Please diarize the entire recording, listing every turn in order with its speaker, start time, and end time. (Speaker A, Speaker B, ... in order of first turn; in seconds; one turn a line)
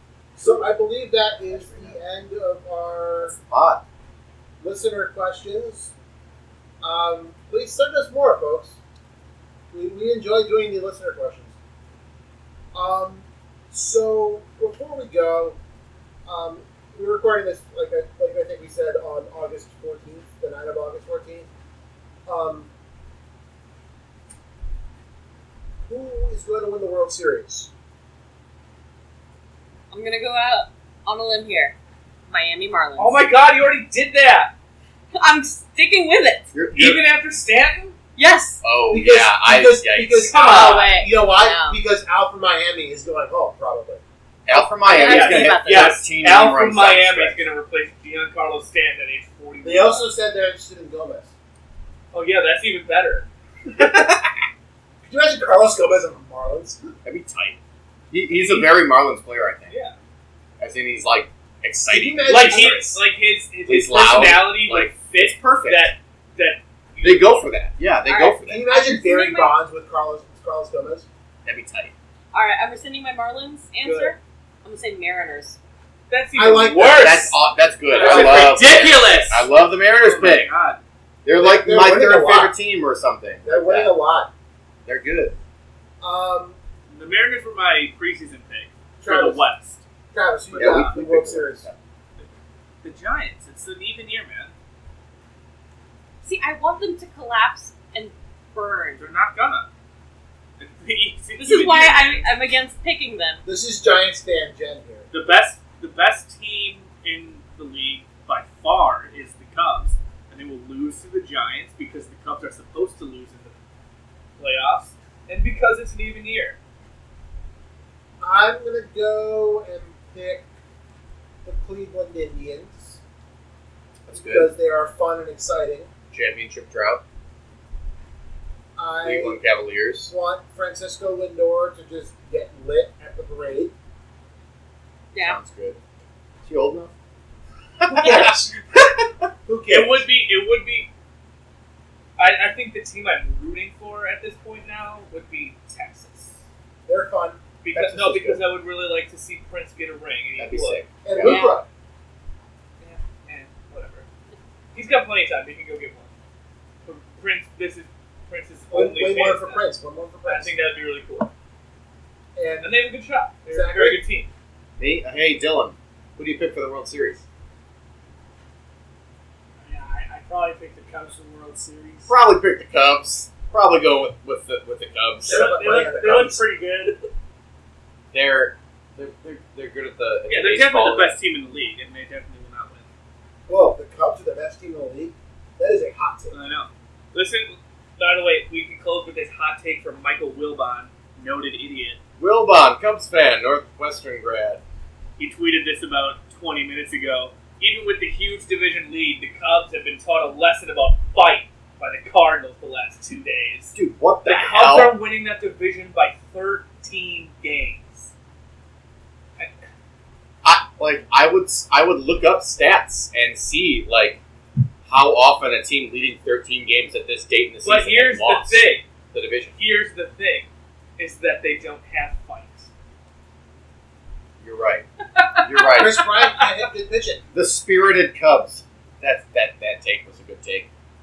Speaker A: 0.3-3.4
Speaker B: 1.5-1.9
Speaker B: 3.4-3.8
Speaker A: 4.6-5.9
Speaker A: 6.8-8.8
Speaker A: 9.7-11.5
Speaker A: 12.7-15.6
Speaker A: 16.3-21.5
Speaker A: 22.3-22.7
Speaker A: 25.9-27.7
Speaker C: 29.9-31.8
Speaker C: 32.3-33.3
Speaker D: 33.0-34.5
Speaker C: 35.1-36.5
Speaker B: 36.5-37.1
Speaker D: 36.7-38.0
Speaker C: 38.2-38.6
Speaker B: 38.6-40.7
Speaker A: 38.9-44.0
Speaker D: 40.3-40.8
Speaker C: 40.3-41.8
Speaker B: 44.5-47.5
Speaker C: 44.5-46.0
Speaker D: 44.9-50.1
Speaker A: 49.6-51.3
Speaker D: 52.1-53.3
Speaker B: 53.8-54.2
Speaker A: 55.0-56.9
Speaker B: 57.0-57.6
Speaker B: 58.1-59.8
Speaker D: 58.3-58.9
Speaker D: 59.7-60.0
Speaker B: 60.6-63.0
Speaker A: 61.9-63.0
Speaker D: 62.3-67.5
Speaker B: 63.7-66.0
Speaker B: 67.0-68.6
Speaker C: 68.1-69.6
Speaker A: 68.5-71.1
Speaker B: 71.5-71.9
Speaker C: 72.3-75.6
Speaker D: 73.8-74.2
Speaker D: 76.1-77.4
Speaker A: 76.4-77.3
Speaker B: 76.8-80.5
Speaker D: 77.9-80.8
Speaker A: 78.0-78.8
Speaker B: 81.2-84.0
Speaker A: 81.3-82.6
Speaker A: 83.4-84.3
Speaker B: 84.9-85.4
Speaker A: 86.0-86.6
Speaker D: 86.9-89.8
Speaker A: 89.0-89.5
Speaker A: 90.1-91.7
Speaker D: 90.5-91.0
Speaker B: 90.5-91.8
Speaker D: 92.2-94.5
Speaker C: 96.2-99.0
Speaker D: 99.0-99.7
Speaker D: 100.6-102.3
Speaker C: 101.4-103.4
Speaker A: 103.5-105.1
Speaker D: 105.1-113.5
Speaker D: 114.4-116.6
Speaker A: 118.2-120.5
Speaker A: 121.5-123.0
Speaker B: 124.0-124.5
Speaker A: 124.1-125.9
Speaker B: 126.1-127.0
Speaker A: 128.8-129.4
Speaker B: 129.0-130.1
Speaker A: 130.1-133.7
Speaker C: 135.1-135.4
Speaker B: 135.2-135.8
Speaker B: 136.4-136.9
Speaker B: 137.8-139.3
Speaker A: 139.5-140.1
Speaker D: 139.7-140.9
Speaker D: 142.2-146.4
Speaker A: 146.9-147.4
Speaker D: 147.6-150.8
Speaker B: 147.7-148.4
Speaker B: 150.4-151.5
Speaker A: 151.1-151.7
Speaker C: 151.2-151.6
Speaker D: 152.8-154.1
Speaker D: 154.7-156.1
Speaker D: 156.8-159.7
Speaker A: 158.7-160.6
Speaker D: 160.2-161.3
Speaker A: 162.3-162.8
Speaker D: 162.6-164.3
Speaker A: 163.5-164.0
Speaker B: 164.8-167.2
Speaker E: 169.6-172.1
Speaker B: 172.1-175.6
Speaker A: 175.2-176.4
Speaker E: 175.3-177.1
Speaker D: 175.3-176.4
Speaker B: 178.1-181.2
Speaker D: 180.3-182.9
Speaker A: 183.5-186.4
Speaker D: 186.3-192.0
Speaker B: 192.2-194.6
Speaker D: 195.2-208.1
Speaker B: 203.8-205.0
Speaker B: 210.4-214.2
Speaker B: 214.9-219.6
Speaker D: 217.6-218.8
Speaker D: 219.6-222.7
Speaker B: 224.4-224.9
Speaker D: 225.2-225.8
Speaker B: 225.4-226.1
Speaker A: 225.7-227.2
Speaker B: 227.3-230.7